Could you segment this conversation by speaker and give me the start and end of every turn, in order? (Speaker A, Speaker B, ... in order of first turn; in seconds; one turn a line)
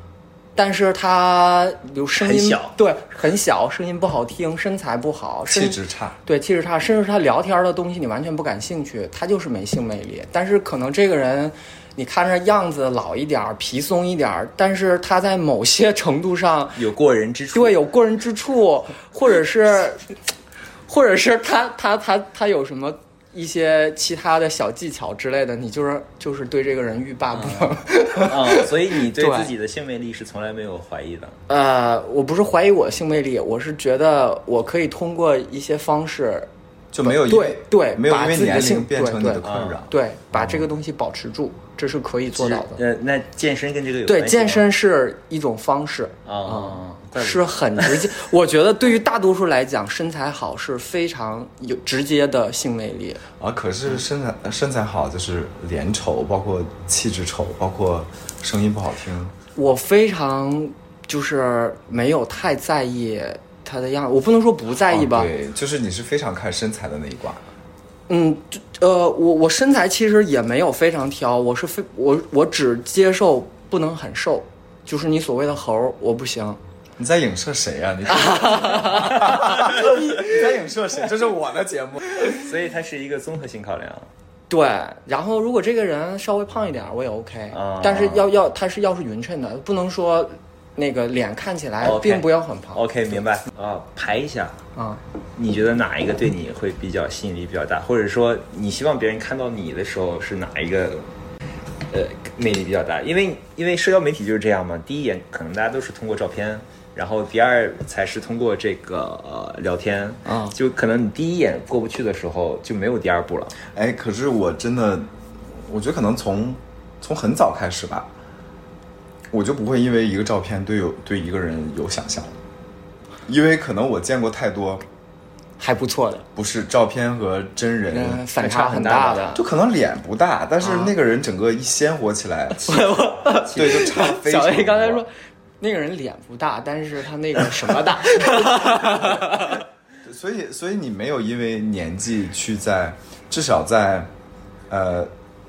Speaker A: 0.6-16.8
Speaker B: 2.2-2.7
Speaker C: 5.5-6.2
Speaker B: 16.8-17.8
Speaker A: 17.5-20.1
Speaker A: 20.9-29.5
Speaker B: 27.4-31.4
Speaker A: 31.5-36.5
Speaker C: 36.9-39.9
Speaker A: 37.0-42.8
Speaker B: 39.4-39.8
Speaker B: 42.3-44.6
Speaker A: 44.0-53.2
Speaker B: 46.2-48.1
Speaker C: 53.4-59.3
Speaker A: 59.5-65.3
Speaker C: 64.9-67.4
Speaker A: 68.1-76.6
Speaker C: 77.0-82.3
Speaker A: 78.2-79.9
Speaker B: 82.2-84.1
Speaker A: 84.5-92.8
Speaker B: 87.5-88.3
Speaker B: 91.8-94.5
Speaker A: 94.8-95.0
Speaker B: 95.3-101.1
Speaker B: 101.9-113.5
Speaker A: 110.2-110.5
Speaker C: 113.7-118.1
Speaker C: 119.3-122.3
Speaker C: 123.2-124.8
Speaker A: 125.6-126.2
Speaker C: 126.3-128.2
Speaker A: 127.9-129.4
Speaker B: 128.4-129.4
Speaker C: 129.3-132.9
Speaker A: 130.6-130.9
Speaker B: 132.6-134.0
Speaker A: 132.7-139.6
Speaker C: 133.5-135.0
Speaker C: 140.0-144.1
Speaker C: 144.7-145.1